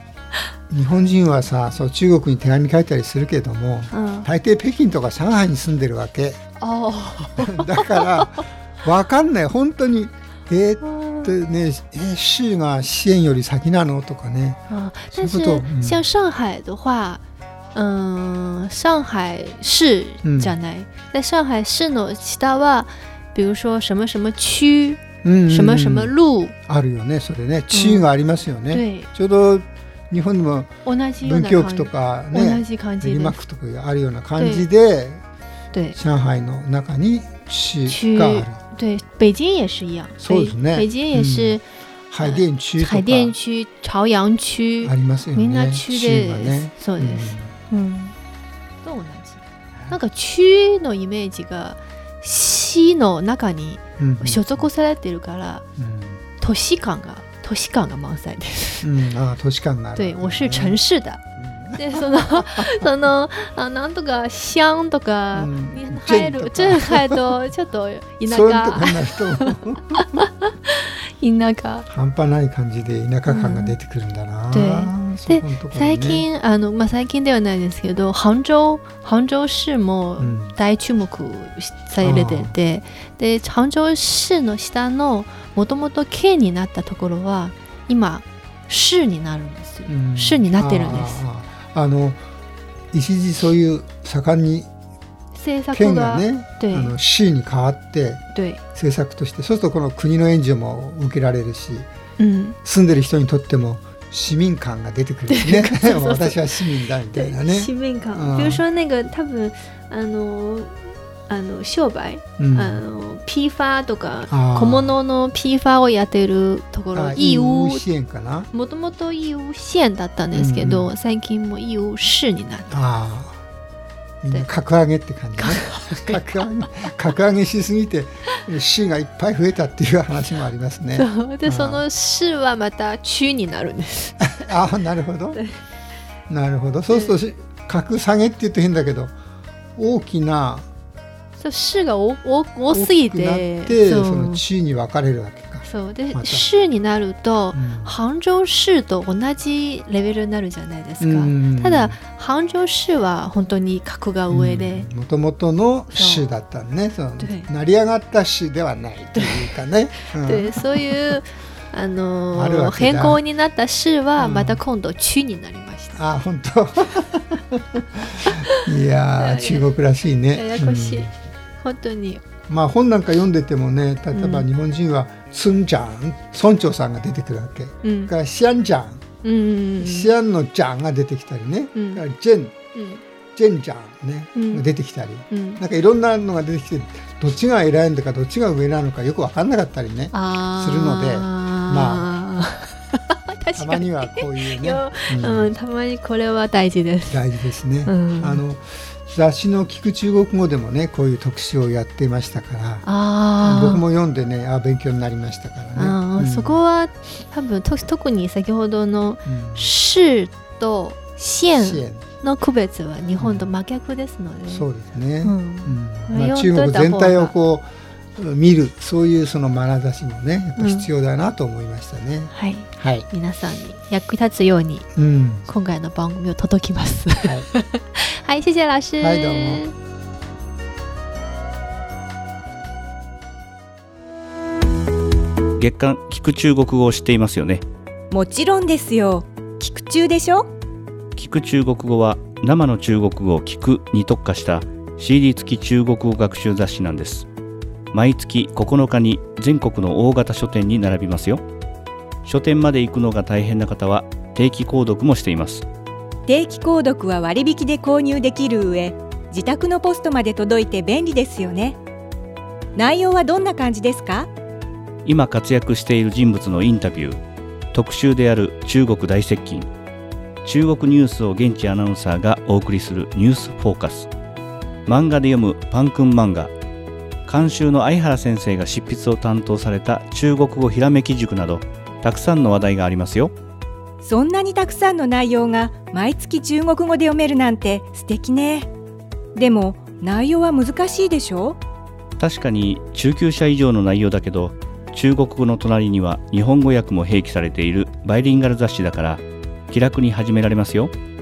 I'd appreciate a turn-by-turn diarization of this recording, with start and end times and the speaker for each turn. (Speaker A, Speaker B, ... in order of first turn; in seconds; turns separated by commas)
Speaker A: 0.7-6.4, Speaker B: 3.9-4.3, Speaker B: 6.6-8.4, Speaker A: 7.4-14.6, Speaker B: 10.8-11.3, Speaker B: 14.7-17.2, Speaker A: 15.1-16.1, Speaker B: 17.7-26.6, Speaker A: 20.2-20.6, Speaker A: 25.2-26.1, Speaker A: 26.7-35.2, Speaker B: 27.7-28.1, Speaker B: 28.7-29.1, Speaker B: 30.9-33.4, Speaker B: 34.4-34.7, Speaker B: 35.7-36.0, Speaker A: 36.0-38.6, Speaker B: 37.9-41.7, Speaker A: 40.2-41.6, Speaker A: 42.1-43.4, Speaker B: 42.2-48.2, Speaker A: 44.8-47.6, Speaker B: 48.8-55.6, Speaker A: 54.0-54.7, Speaker A: 55.8-56.2, Speaker B: 56.4-58.9, Speaker A: 58.8-60.8, Speaker B: 60.0-61.2, Speaker A: 61.4-62.8, Speaker B: 61.7-69.5, Speaker A: 65.3-67.2, Speaker A: 68.2-70.2, Speaker B: 70.2-71.9, Speaker A: 71.9-76.3, Speaker B: 73.3-73.8, Speaker B: 74.5-91.2, Speaker A: 80.2-80.6, Speaker A: 82.0-82.5, Speaker A: 89.9-92.2, Speaker A: 92.9-94.7, Speaker B: 95.3-96.9, Speaker A: 95.7-101.9, Speaker B: 98.3-98.6, Speaker B: 102.2-102.6, Speaker A: 102.6-108.6, Speaker B: 105.3-106.5, Speaker B: 107.1-117.9, Speaker A: 112.4-112.8, Speaker A: 114.3-115.0, Speaker A: 116.9-118.5, Speaker B: 118.5-122.8, Speaker A: 120.3-120.9, Speaker A: 122.7-123.4, Speaker A: 124.2-131.8, Speaker B: 125.4-126.4, Speaker B: 131.0-134.2, Speaker A: 134.3-135.4, Speaker A: 136.3-139.1, Speaker A: 139.8-140.7, Speaker B: 141.4-144.4, Speaker A: 142.7-146.5, Speaker B: 145.6-154.9, Speaker A: 147.5-147.9, Speaker A: 151.0-152.0, Speaker A: 154.3-161.2, Speaker B: 155.9-156.3, Speaker B: 157.2-157.5, Speaker B: 159.2-166.1, Speaker A: 162.3-163.2, Speaker A: 164.2-164.6, Speaker A: 165.9-171.1, Speaker B: 168.3-168.6, Speaker B: 169.2-169.7, Speaker B: 170.3-172.2, Speaker A: 172.5-179.0, Speaker B: 174.1-174.5, Speaker B: 177.8-178.1, Speaker B: 179.2-180.1, Speaker A: 179.8-182.6, Speaker B: 181.8-182.0, Speaker B: 182.7-183.0, Speaker A: 183.4-192.1, Speaker B: 184.3-184.6, Speaker B: 185.3-185.6, Speaker B: 190.1-197.3, Speaker A: 193.6-195.5, Speaker A: 197.1-202.9, Speaker B: 197.8-198.4, Speaker B: 202.8-203.8, Speaker A: 203.4-206.6, Speaker B: 205.8-214.7, Speaker A: 209.2-209.7, Speaker A: 211.6-212.1, Speaker A: 213.2-213.5, Speaker A: 214.5-223.1, Speaker B: 215.2-217.3, Speaker B: 220.6-220.9, Speaker B: 222.3-224.9, Speaker A: 225.0-225.5, Speaker B: 225.4-229.8, Speaker A: 227.2-227.5, Speaker A: 229.0-229.6, Speaker C: 235.6-237.7, Speaker D: 238.1-240.5, Speaker C: 241.2-247.3, Speaker C: 247.9-251.4, Speaker C: 252.2-255.7, Speaker D: 256.3-261.8, Speaker D: 262.8-264.3, Speaker C: 265.1-269.7, Speaker C: 270.4-274.1, Speaker C: 274.9-276.5, Speaker C: 277.3-283.3, Speaker D: 284.0-288.7, Speaker D: 289.4-291.6, Speaker C: 292.2-300.9